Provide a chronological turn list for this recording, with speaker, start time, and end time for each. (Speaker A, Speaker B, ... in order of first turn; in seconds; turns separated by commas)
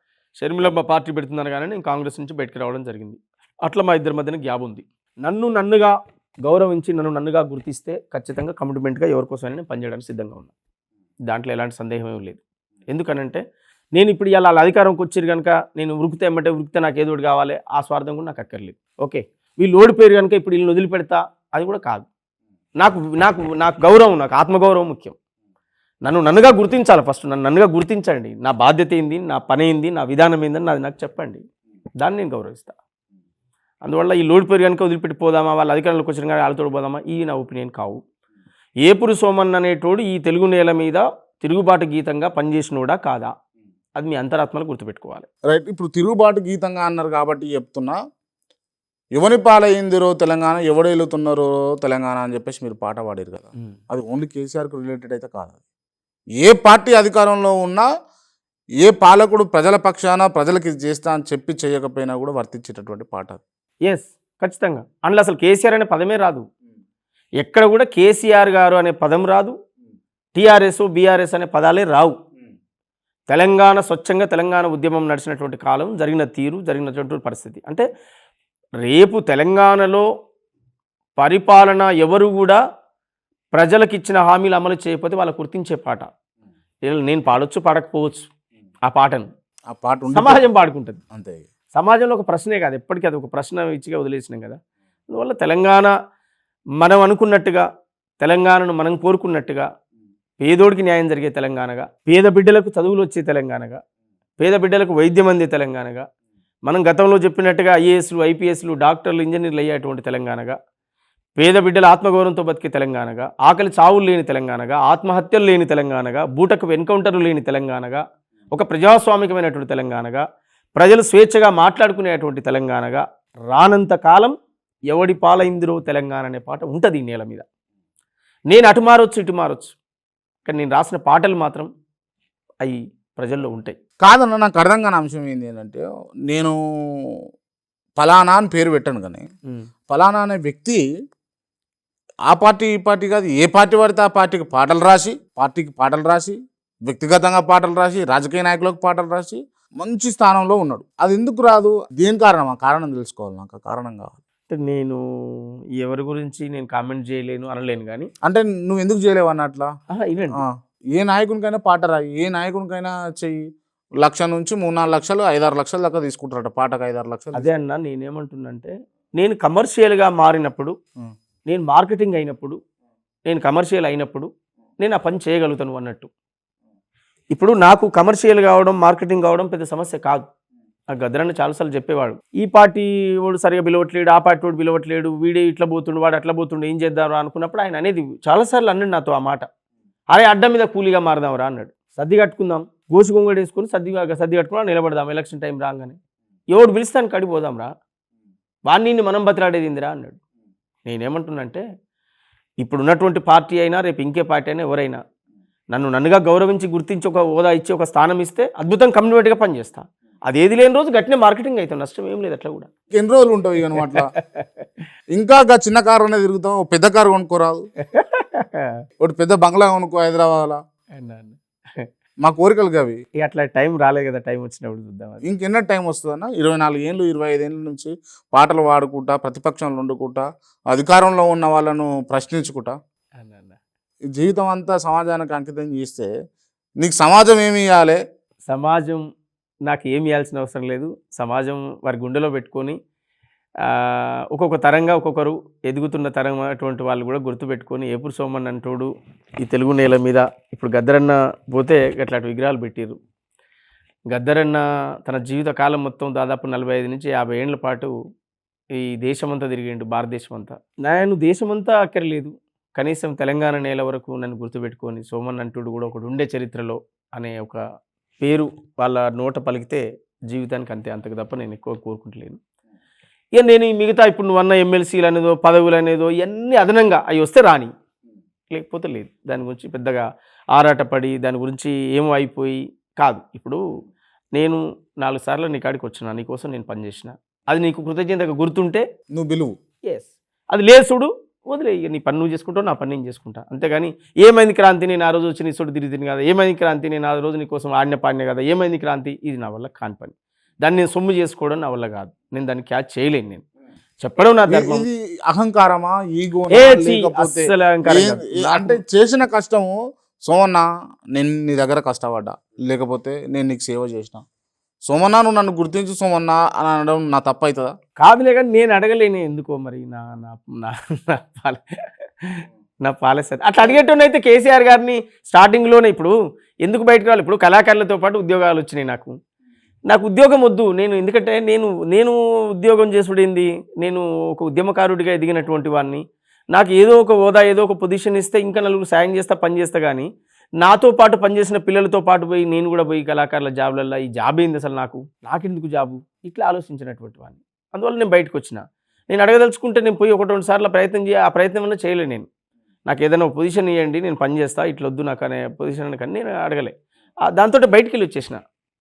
Speaker A: 0.4-10.5, Speaker A: 11.3-13.4, Speaker A: 13.9-22.1, Speaker A: 22.8-25.2, Speaker A: 26.1-31.4, Speaker A: 32.0-32.8, Speaker A: 33.9-38.0, Speaker A: 38.8-43.3, Speaker A: 44.0-45.3, Speaker B: 45.5-48.0, Speaker B: 49.2-55.6, Speaker B: 56.4-57.9, Speaker B: 58.8-63.4, Speaker A: 63.9-66.5, Speaker A: 67.4-69.5, Speaker A: 70.4-72.2, Speaker A: 73.3-77.9, Speaker A: 78.8-80.1, Speaker A: 81.2-82.6, Speaker A: 83.5-86.1, Speaker A: 86.8-88.3, Speaker A: 88.9-89.3, Speaker B: 89.7-90.5, Speaker A: 90.1-91.0, Speaker B: 91.1-91.5, Speaker A: 91.8-94.6, Speaker A: 95.1-95.9, Speaker A: 96.8-97.7, Speaker A: 98.2-99.7, Speaker A: 100.4-103.8, Speaker A: 104.4-106.0, Speaker A: 106.7-110.6, Speaker A: 111.4-120.2, Speaker A: 120.8-124.3, Speaker A: 124.9-127.5, Speaker A: 128.5-129.8, Speaker A: 130.4-131.7, Speaker A: 132.6-133.8, Speaker B: 134.0-136.6, Speaker B: 138.0-139.3, Speaker B: 139.9-140.8, Speaker B: 142.3-154.2, Speaker A: 154.5-158.1, Speaker B: 158.2-159.7, Speaker A: 159.9-160.4, Speaker B: 160.4-163.4, Speaker B: 164.0-167.5, Speaker A: 167.3-170.7, Speaker A: 171.5-172.6, Speaker A: 173.3-174.3, Speaker A: 174.8-176.1, Speaker A: 177.3-180.3, Speaker A: 180.9-189.4, Speaker A: 190.1-196.0, Speaker A: 196.5-197.7, Speaker A: 198.7-200.2, Speaker A: 200.9-201.6, Speaker A: 202.6-205.0, Speaker A: 205.7-212.7, Speaker B: 212.9-214.1, Speaker A: 213.8-214.7, Speaker B: 215.2-217.7, Speaker A: 217.8-218.7, Speaker B: 219.0-220.6, Speaker A: 221.0-221.9, Speaker B: 222.2-223.0, Speaker A: 223.2-225.2, Speaker B: 225.2-232.8, Speaker A: 233.2-233.6, Speaker B: 234.1-236.1, Speaker B: 236.8-238.0, Speaker A: 238.5-239.0, Speaker A: 239.7-242.8, Speaker A: 243.7-248.9, Speaker A: 249.4-253.0, Speaker A: 254.1-257.9, Speaker A: 258.8-267.6, Speaker A: 268.2-272.4, Speaker A: 273.4-277.7, Speaker A: 278.5-280.0, Speaker A: 280.6-283.6, Speaker A: 284.4-288.8, Speaker B: 289.2-289.6, Speaker A: 289.9-303.4, Speaker A: 304.0-304.9, Speaker B: 304.5-309.8, Speaker A: 306.5-308.8, Speaker B: 310.3-314.2, Speaker B: 314.9-317.7, Speaker A: 318.0-321.6, Speaker A: 322.2-329.1, Speaker A: 329.9-340.1, Speaker A: 340.6-352.3, Speaker A: 352.9-356.7, Speaker A: 357.3-358.4